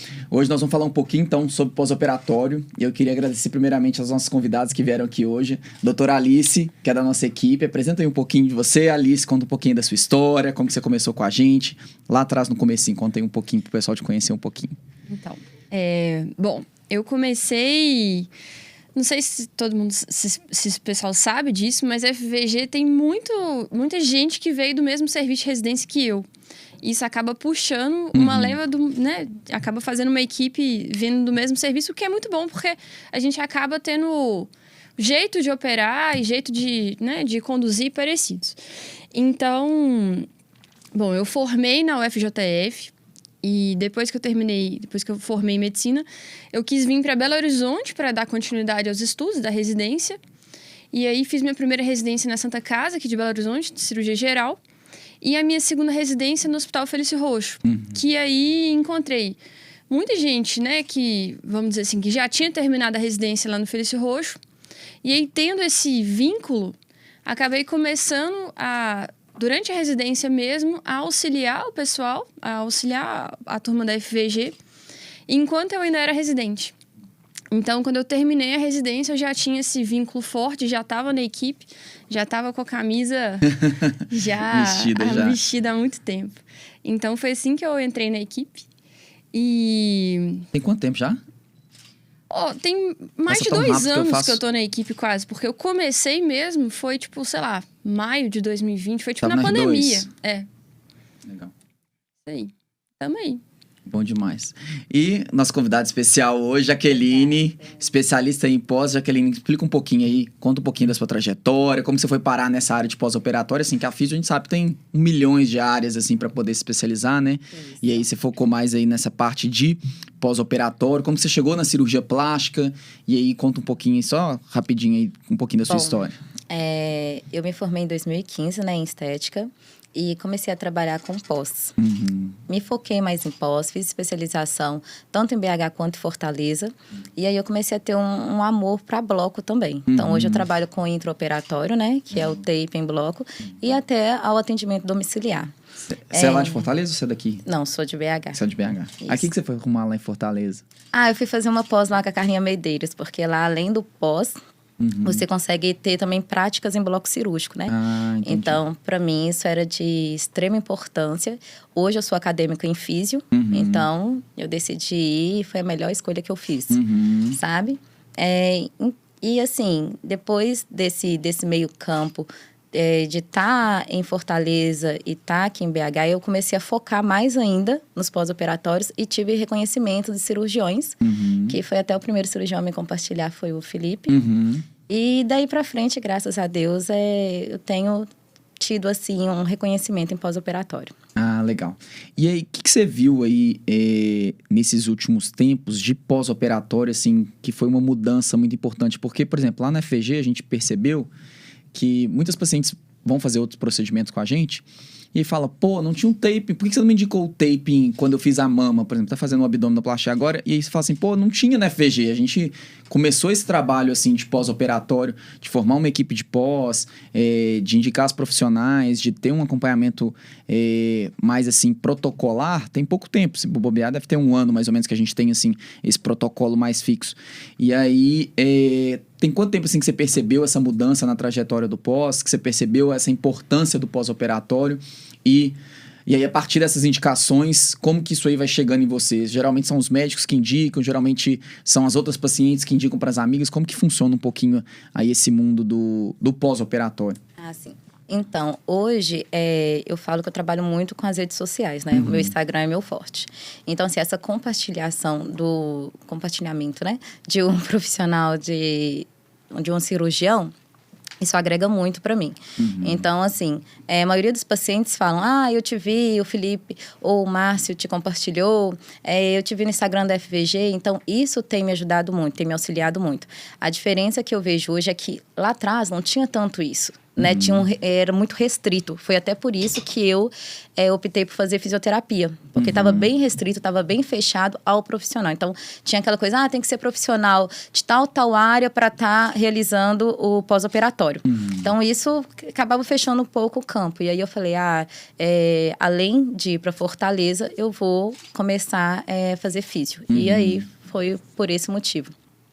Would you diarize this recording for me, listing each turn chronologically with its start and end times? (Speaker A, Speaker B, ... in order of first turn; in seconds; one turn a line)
Speaker A: 0.3-14.8
Speaker B: 15.1-18.3
Speaker B: 18.9-26.3
Speaker B: 26.8-38.6
Speaker A: 28.1-28.6
Speaker B: 39.1-40.3
Speaker B: 40.9-42.9
Speaker B: 43.4-50.2
Speaker B: 50.9-54.6
Speaker B: 55.2-59.4
Speaker A: 57.6-58.0
Speaker B: 59.9-64.4
Speaker B: 65.0-74.6
Speaker B: 75.3-76.7
Speaker B: 77.5-88.6
Speaker A: 83.4-85.4
Speaker B: 89.3-90.5
Speaker A: 90.5-91.2
Speaker B: 92.3-100.5
Speaker A: 93.3-94.4
Speaker A: 99.2-100.1
Speaker A: 101.2-101.5
Speaker B: 102.2-103.4
Speaker A: 103.8-126.2
Speaker C: 107.1-107.8
Speaker C: 117.5-118.0
Speaker C: 125.7-131.8
Speaker A: 131.8-132.4
Speaker C: 132.5-145.5
Speaker A: 139.9-140.4
Speaker A: 145.9-147.4
Speaker C: 146.1-146.7
Speaker C: 147.4-148.4
Speaker A: 148.3-150.6
Speaker C: 149.0-149.3
Speaker C: 150.9-154.4
Speaker A: 154.8-155.2
Speaker C: 155.0-157.7
Speaker A: 157.7-158.6
Speaker C: 158.2-166.8
Speaker A: 163.3-163.9
Speaker A: 166.7-167.4
Speaker C: 167.3-184.2
Speaker A: 181.0-181.6
Speaker A: 184.1-184.7
Speaker C: 184.9-188.1
Speaker C: 188.6-190.9
Speaker A: 191.2-201.1
Speaker A: 201.7-247.2
Speaker C: 247.4-260.5
Speaker A: 251.9-252.3
Speaker C: 261.2-302.1
Speaker A: 262.6-263.1
Speaker A: 277.2-277.6
Speaker A: 282.6-283.0
Speaker A: 291.3-291.7
Speaker A: 300.1-300.6